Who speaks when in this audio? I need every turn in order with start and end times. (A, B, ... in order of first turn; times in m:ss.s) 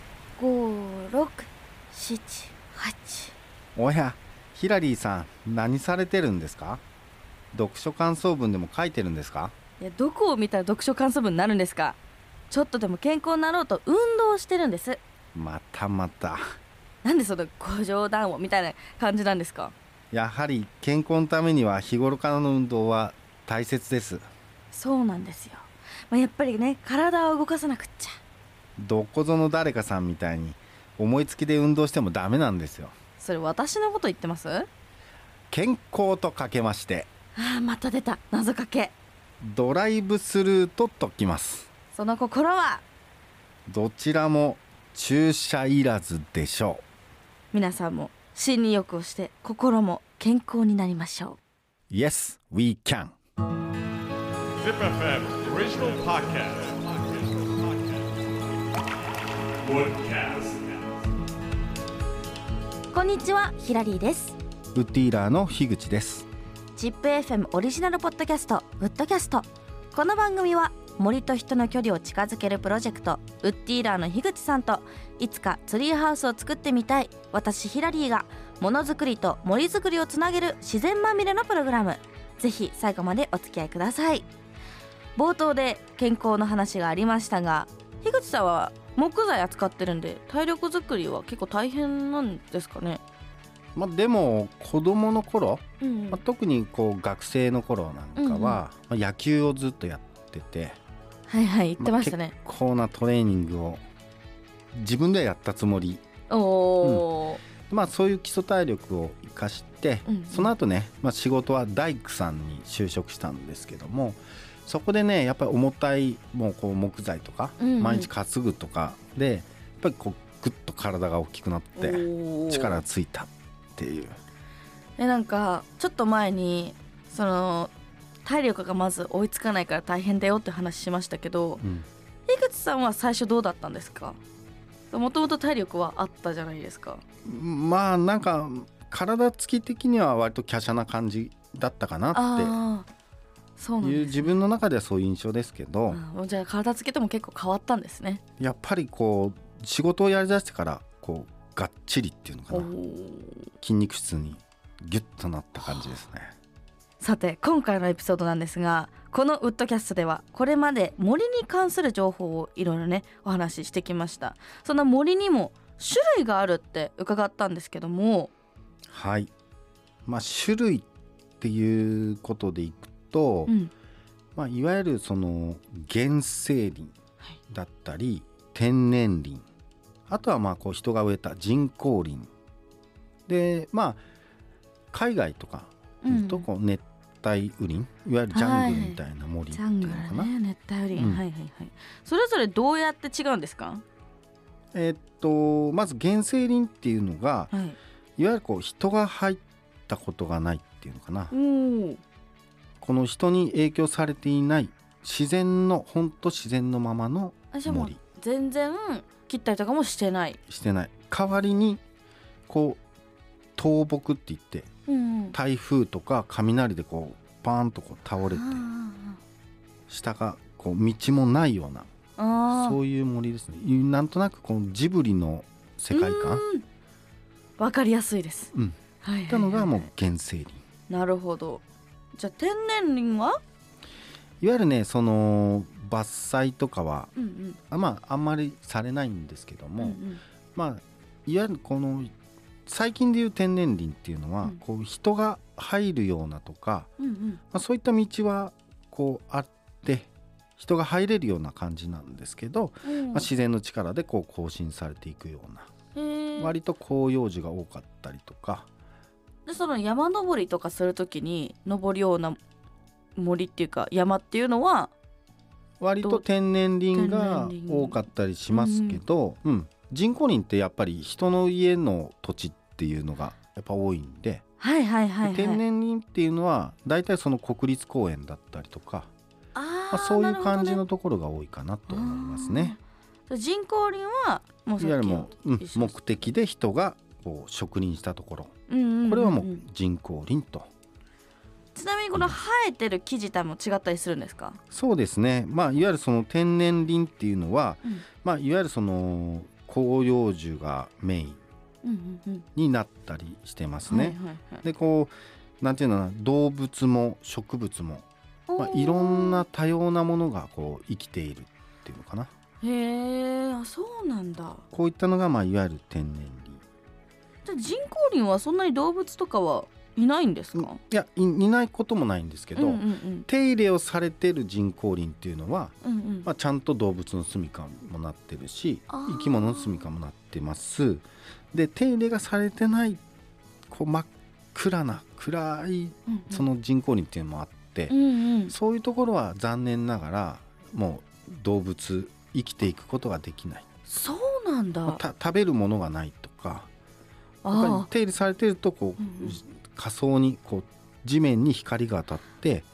0:00.4-0:03.3 A
0:03.8-0:06.8 B
0:07.5-0:09.5 B
0:09.8-0:12.0 A
0:12.5-0:15.0 A
0:15.3-0:16.4 B
0:17.0-0:19.8 A
0:20.1-0:24.2 B
0:24.7-0:28.2 A
0:28.8-0:33.0 B
0:33.2-0:34.7 A
0:35.5-0:37.1 B
0:37.4-0:39.0 A
0:39.4-0:41.7 B
0:41.9-0:42.8 A
0:43.7-0:46.8 B
0:47.5-0:51.4 A
0:51.9-0:53.2 B
0:54.6-0:57.8 C
0:59.6-1:00.8 C
1:02.9-1:04.4 A
1:04.7-1:06.3 B
1:06.8-1:24.3 A
1:25.2-1:33.0 A
1:33.8-1:40.8 B
1:35.8-1:36.2 A
1:38.2-1:38.6 A
1:41.3-1:42.3 A
1:41.8-1:43.8 B
1:44.7-1:46.0 B
1:46.3-1:47.4 A
1:46.8-1:47.1 B
1:47.6-2:04.2 B
1:50.1-1:50.5 A
1:57.6-1:58.1 A
2:01.8-2:02.8 A
2:05.0-2:07.7 A
2:08.2-2:11.6 A
2:11.6-2:11.9 B
2:12.3-2:14.2 A
2:14.9-2:17.0 A
2:17.2-2:22.6 B
2:22.1-2:22.9 A
2:23.6-2:24.4 A
2:23.8-2:26.0 B
2:25.9-2:28.2 A
2:28.4-2:32.7 B
2:32.5-2:33.5 A
2:33.6-2:36.3 B
2:35.6-2:35.9 A
2:37.0-2:48.3 A
2:48.9-2:49.3 B
2:50.1-2:50.9 B
2:51.4-2:53.5 B
2:53.5-2:53.7 A
2:54.4-2:56.9 B
2:57.5-2:59.5 B
3:00.1-3:02.3 B
3:03.3-3:04.0 B
3:04.9-3:10.3 B
3:06.0-3:06.5 A
3:08.3-3:09.0 A
3:09.5-3:13.8 A
3:11.0-3:11.2 B
3:14.7-3:17.5 B
3:17.5-3:17.8 A
3:18.2-3:21.3 B
3:21.3-3:22.0 A
3:22.8-3:28.0 B
3:27.5-3:30.4 A
3:30.5-3:31.8 B
3:32.5-3:32.8 B
3:33.6-3:34.7 B
3:34.9-3:35.4 A
3:35.3-3:38.6 B
3:38.2-3:39.2 A
3:39.9-3:41.9 B
3:42.2-3:42.8 A
3:42.5-3:46.4 B
3:45.9-3:46.6 A
3:47.6-3:49.9 A
3:48.5-3:48.8 B
3:49.3-3:50.6 B
3:50.9-3:53.4 A
3:54.4-3:57.1 B
3:57.2-3:57.6 A
3:57.7-4:00.0 B
3:59.8-4:00.2 A
4:00.6-4:02.1 B
4:02.7-4:06.9 B
4:07.0-4:07.4 A
4:07.5-4:15.7 B
4:12.8-4:13.3 A
4:16.0-4:16.6 A
4:16.4-4:18.7 B
4:19.5-4:22.4 A
4:23.2-4:24.9 A
4:25.8-4:34.4 B
4:26.9-4:28.0 A
4:28.5-4:29.0 A
4:34.6-4:35.6 A
4:35.2-4:39.1 B
4:39.6-4:40.8 A
4:39.9-4:42.8 B
4:41.9-4:46.0 A
4:44.8-4:48.5 B
4:48.7-4:49.6 A
4:49.1-4:50.7 B
4:51.7-4:54.6 A
4:54.7-5:01.4 B
5:01.8-5:02.4 A
5:02.6-5:08.1 B
5:03.9-5:04.6 A
5:08.5-5:09.4 A
5:08.6-5:12.3 B
5:12.6-5:14.6 A
5:14.7-5:16.6 B
5:17.4-5:20.8 A
5:20.6-5:33.0 B
5:22.6-5:23.3 A
5:25.8-5:26.3 A
5:28.9-5:29.8 A
5:33.7-5:38.0 B
5:36.1-5:36.5 A
5:37.9-5:38.6 A
5:38.5-5:43.7 B
5:43.9-5:45.0 A
5:44.9-5:46.7 B
5:47.4-5:47.9 A
5:47.5-5:52.7 B
5:49.0-5:49.4 A